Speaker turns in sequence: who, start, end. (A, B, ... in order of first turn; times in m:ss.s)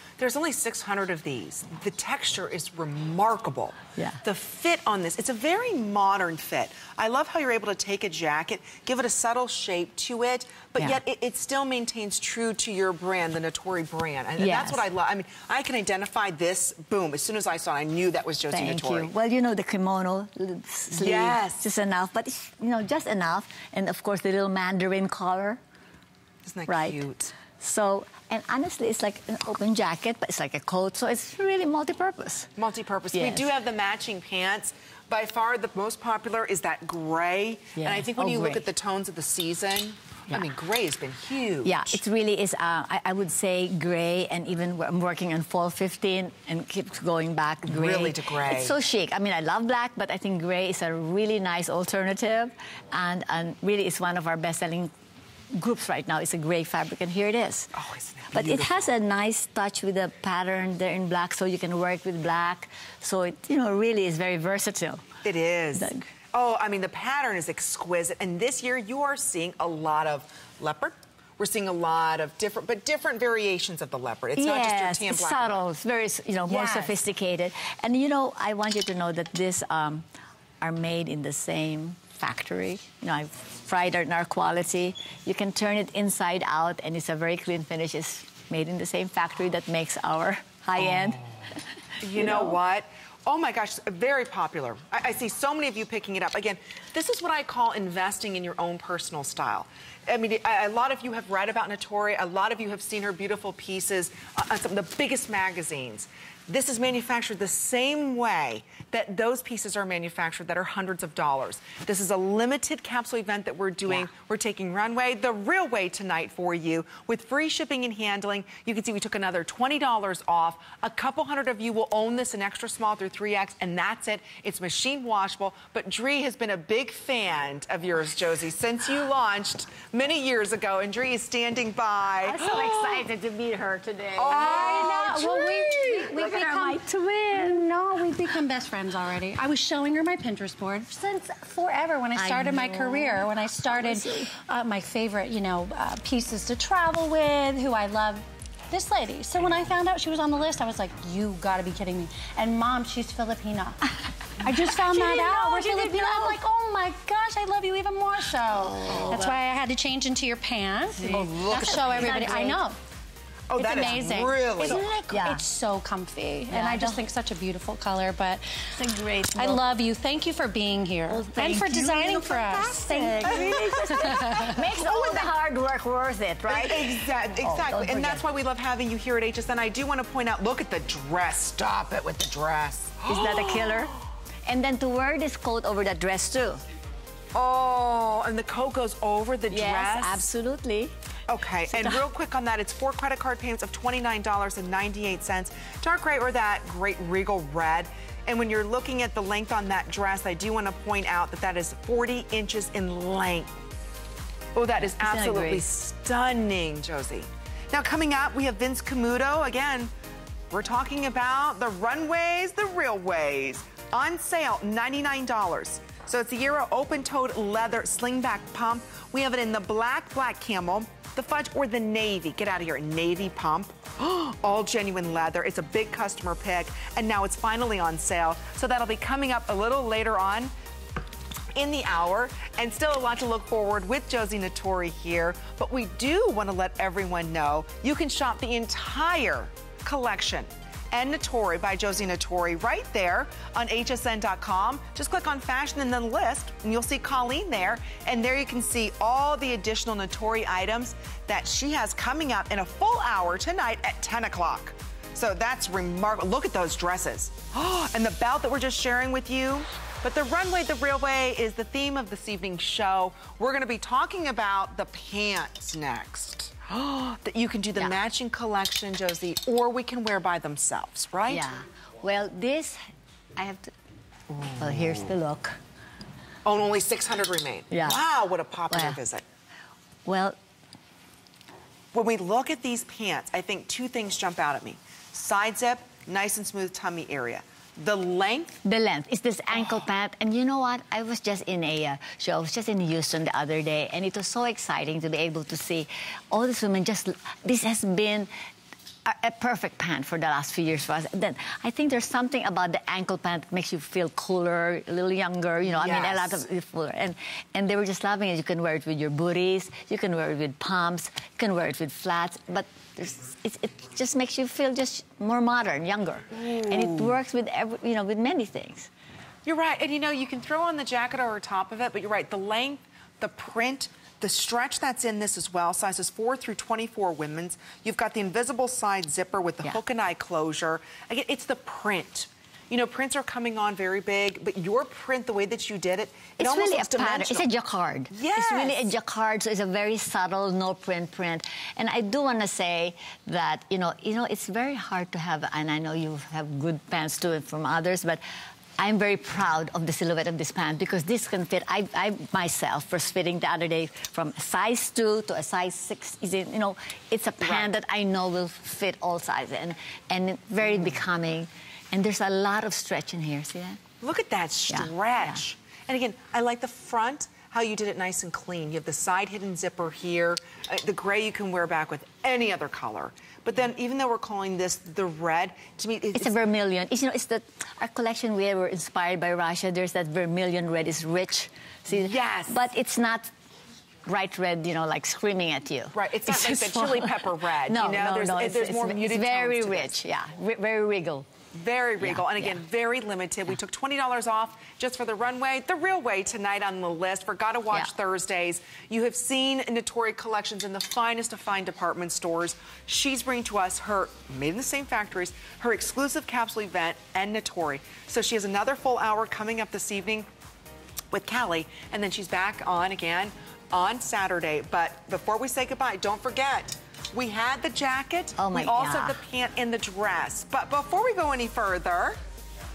0:00.2-0:19.1 A
0:14.4-0:14.8 B
0:18.5-0:25.6 B
0:20.9-0:21.7 A
0:26.4-0:27.3 A
0:26.7-0:32.5 B
0:32.6-0:42.0 A
0:33.1-0:33.5 B
0:37.8-0:38.7 B
0:41.6-0:54.9 B
0:47.6-0:48.8 A
0:55.5-0:57.7 B
0:57.8-0:58.9 A
0:58.3-1:05.1 B
1:05.2-1:15.6 A
1:05.8-1:06.1 B
1:14.4-1:20.1 B
1:16.5-1:16.9 A
1:20.6-1:31.3 B
1:30.8-1:31.2 A
1:32.0-2:13.1 A
1:32.1-1:32.6 B
2:12.2-2:17.7 B
2:14.2-2:15.4 A
2:14.3-2:16.8 C
2:17.3-2:42.8 C
2:22.2-2:24.3 B
2:34.5-2:36.4 B
2:38.8-2:39.4 B
2:38.9-2:39.2 A
2:41.0-2:42.6 B
2:41.0-2:42.2 A
2:43.5-2:44.9 A
2:43.6-2:48.7 C
2:44.6-2:45.4 B
2:46.5-2:47.0 B
2:48.7-2:49.6 B
2:49.4-2:54.7 C
2:51.1-2:58.2 B
2:53.2-2:55.3 A
2:56.5-3:03.9 A
3:03.1-3:06.6 B
3:07.3-3:10.2 A
3:09.5-3:10.9 B
3:11.3-3:23.6 A
3:11.7-3:12.0 B
3:24.6-3:29.9 A
3:25.0-3:25.6 B
3:30.5-3:50.5 A
3:51.6-4:31.4 A
4:31.3-4:32.8 B
4:33.4-4:33.7 B
4:34.3-4:35.1 A
4:34.6-4:35.6 B
4:36.4-4:39.2 A
4:37.7-4:38.0 B
4:38.7-4:39.0 B
4:40.0-4:40.4 B
4:41.9-4:48.6 A
4:48.6-4:58.3 B
4:49.5-4:49.9 A
4:59.0-5:18.9 B
5:05.6-5:06.4 A
5:16.3-5:17.2 A
5:19.4-5:37.5 A
5:36.4-5:48.2 B
5:38.1-5:38.9 A
5:48.8-6:03.8 B
5:57.4-5:57.7 A
6:00.6-6:01.0 A
6:04.0-6:16.3 A
6:04.7-6:05.4 B
6:16.2-6:23.3 B
6:21.9-6:22.6 A
6:24.1-6:31.3 B
6:25.9-6:30.0 A
6:31.5-6:50.3 A
6:32.0-6:32.6 B
6:51.1-7:02.2 A
6:58.4-6:59.2 B